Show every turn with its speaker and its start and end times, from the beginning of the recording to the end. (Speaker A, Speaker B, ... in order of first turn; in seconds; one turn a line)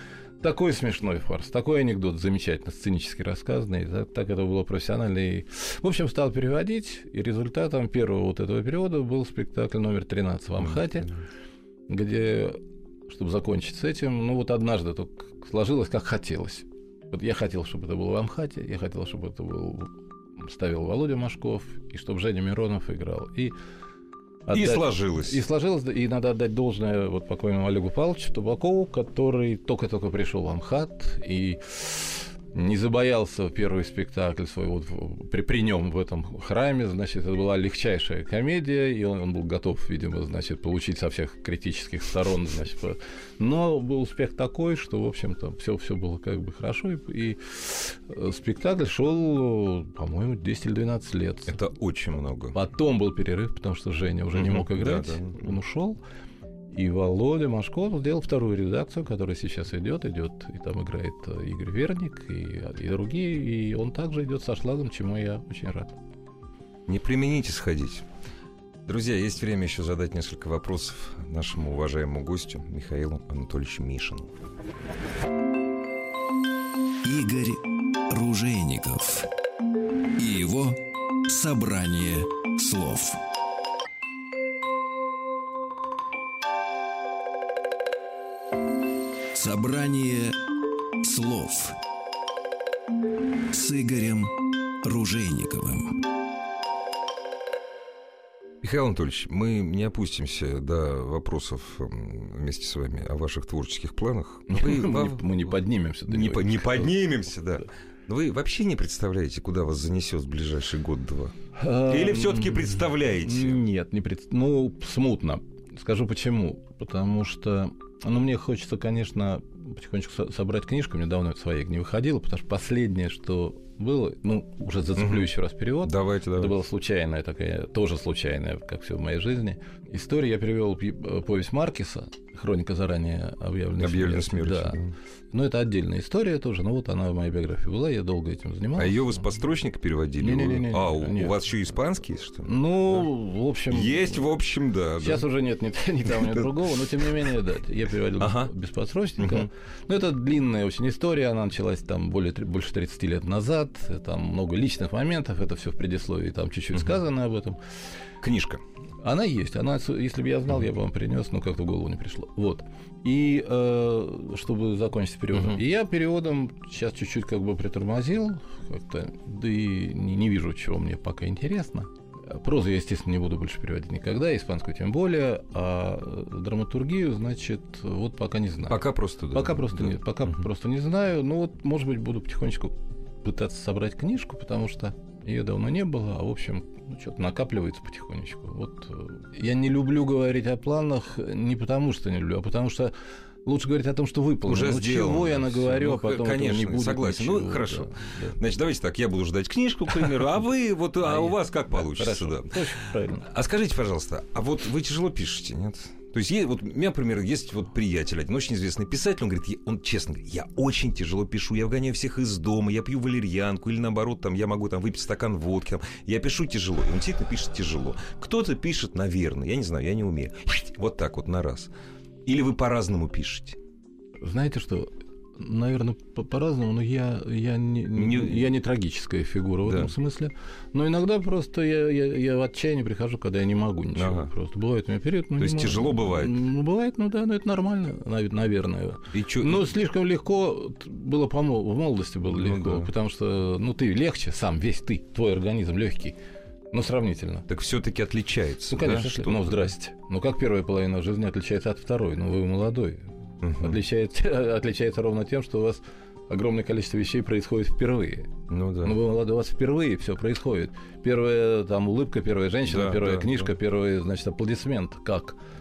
Speaker A: 0.4-11.1
Speaker B: 10.6-11.0
Speaker A: 11.9-23.5
Speaker A: 24.5-51.6
Speaker B: 24.5-25.4
Speaker B: 51.5-52.5
Speaker A: 52.5-56.0
Speaker B: 54.3-55.4
Speaker A: 56.7-66.0
Speaker B: 66.9-68.0
Speaker B: 68.8-74.3
Speaker C: 77.0-79.3
Speaker C: 80.2-83.2
Speaker C: 89.3-90.4
Speaker C: 91.0-91.8
Speaker C: 93.5-96.0
Speaker B: 98.6-105.2
Speaker A: 104.5-107.0
Speaker B: 106.1-113.6
Speaker A: 111.5-134.8
Speaker B: 125.0-126.6
Speaker B: 133.8-134.9
Speaker A: 135.3-139.2
Speaker B: 138.8-143.1
Speaker A: 140.2-141.4
Speaker A: 142.4-144.3
Speaker B: 143.7-145.2
Speaker A: 145.0-157.6
Speaker B: 148.2-148.5
Speaker B: 149.2-149.5
Speaker B: 158.2-158.6
Speaker A: 159.0-192.9
Speaker B: 178.6-180.0
Speaker A: 193.4-198.4
Speaker B: 194.4-202.5
Speaker A: 201.0-203.3
Speaker B: 203.2-221.7
Speaker B: 222.2-223.6
Speaker A: 224.2-246.1
Speaker B: 227.9-228.4
Speaker B: 229.6-229.9
Speaker B: 233.9-234.3
Speaker B: 235.4-236.3
Speaker B: 239.1-239.7
Speaker B: 242.3-242.9
Speaker A: 246.7-247.5
Speaker B: 247.5-249.7
Speaker A: 248.7-258.3
Speaker B: 253.4-253.8
Speaker B: 258.5-259.0
Speaker A: 258.8-265.4
Speaker B: 262.6-263.5